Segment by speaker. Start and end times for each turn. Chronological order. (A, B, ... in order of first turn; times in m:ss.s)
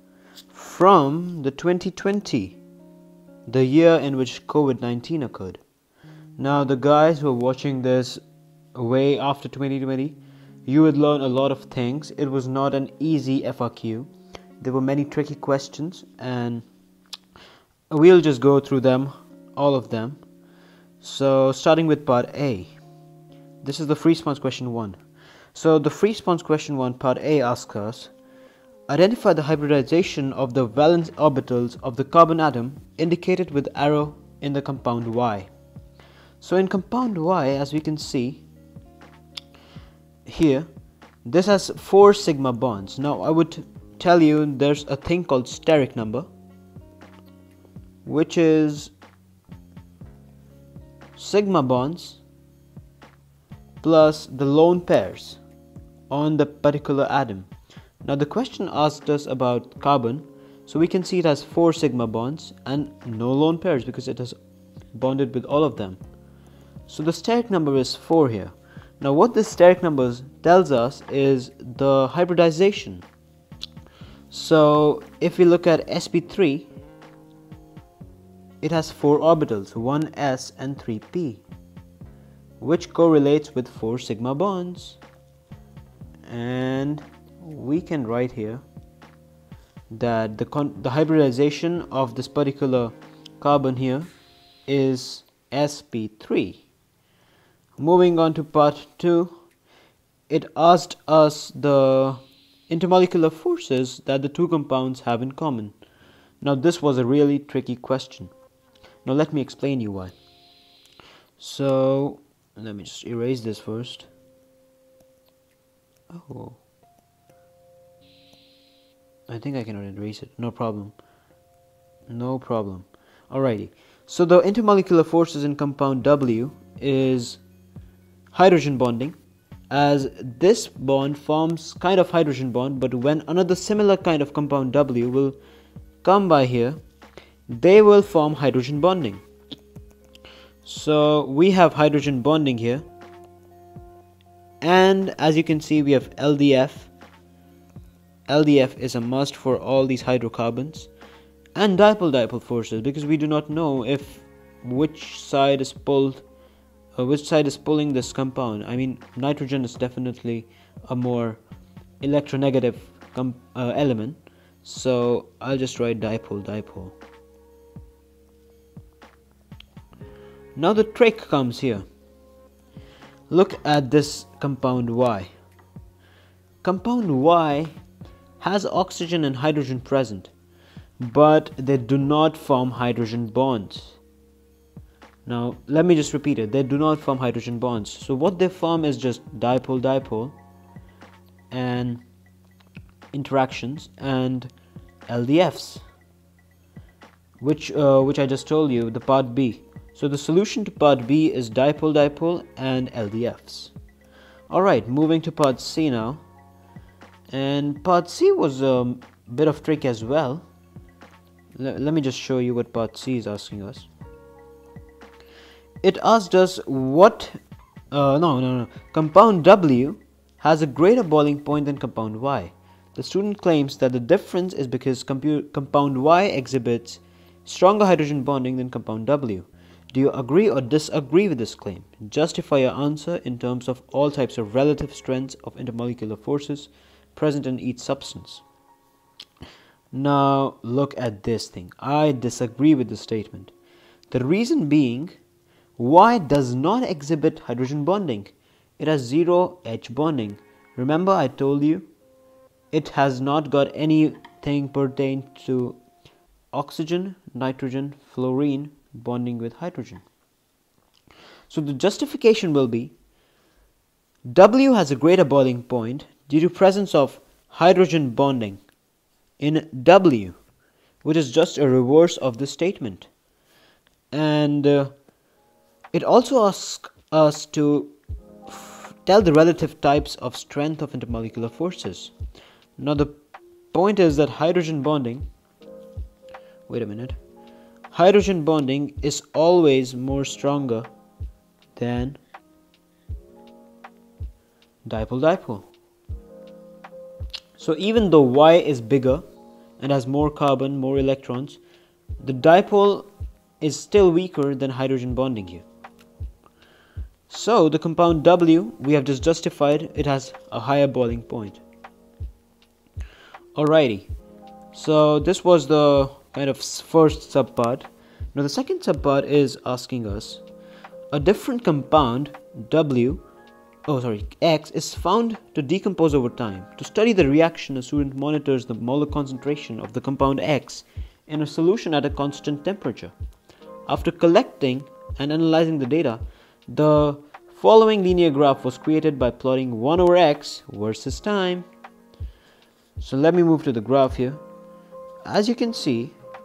0:00.5-0:02.6 A
0:03.5-0:05.6 A
0:06.4-0:08.2 A
0:08.7-0:16.6 A
0:17.9-0:20.2 A
0:21.0-0:22.7 A
0:23.6-0:25.0 A
0:25.5-0:28.1 A
0:28.9-0:35.5 A
0:36.4-0:38.4 A
0:40.2-0:40.7 A
0:41.2-0:46.2 A
0:48.0-0:48.9 A
0:51.2-0:52.2 A
0:53.8-0:55.4 A
0:56.1-0:57.5 A
0:58.0-1:04.4 A
1:04.9-1:06.0 A
1:06.9-1:13.0 A
1:14.3-1:16.7 A
1:18.6-1:21.4 A
1:22.6-1:25.0 A
1:26.2-1:28.6 A
1:29.9-1:34.1 A
1:34.7-1:36.6 A
1:37.8-1:39.3 A
1:40.3-1:45.7 A
1:46.4-1:48.3 A
1:49.0-1:50.1 A
1:51.4-1:54.1 A
1:56.1-1:56.6 A
1:59.3-2:00.9 A
2:02.1-2:07.4 A
2:08.3-2:09.2 A
2:09.7-2:15.4 A
2:16.0-2:16.8 A
2:17.5-2:19.2 A
2:20.6-2:22.8 A
2:24.6-2:26.9 A
2:28.3-2:30.9 A
2:31.5-2:36.2 A
2:37.0-2:41.4 A
2:42.0-2:47.0 A
2:50.6-2:51.8 A
2:53.3-2:55.3 A
2:56.6-2:57.7 A
2:58.4-3:00.3 A
3:01.0-3:04.0 A
3:05.2-3:10.4 A
3:11.5-3:12.0 A
3:13.1-3:14.5 A
3:15.1-3:15.8 A
3:17.4-3:23.7 A
3:24.5-3:26.2 A
3:27.3-3:30.4 A
3:31.5-3:33.9 A
3:35.8-3:37.4 A
3:37.9-3:58.4 A
3:59.9-4:03.5 A
4:04.1-4:05.2 A
4:05.8-4:11.9 A
4:12.7-4:15.8 A
4:16.5-4:20.0 A
4:21.5-4:22.9 A
4:24.3-4:28.6 A
4:29.4-4:30.4 A
4:31.0-4:33.1 A
4:34.1-4:34.9 A
4:35.9-4:37.9 A
4:38.5-4:42.1 A
4:42.8-4:43.2 A
4:43.7-4:45.3 A
4:46.7-4:47.2 A
4:47.9-4:50.9 A
4:51.8-4:52.2 A
4:54.8-4:55.7 A
4:57.6-4:59.2 A
4:59.8-5:01.6 A
5:02.2-5:03.1 A
5:03.6-5:05.6 A
5:07.3-5:11.6 A
5:13.5-5:14.1 A
5:14.7-5:20.4 A
5:21.1-5:23.2 A
5:23.9-5:33.1 A
5:33.9-5:41.6 A
5:43.0-5:44.4 A
5:45.2-5:46.1 A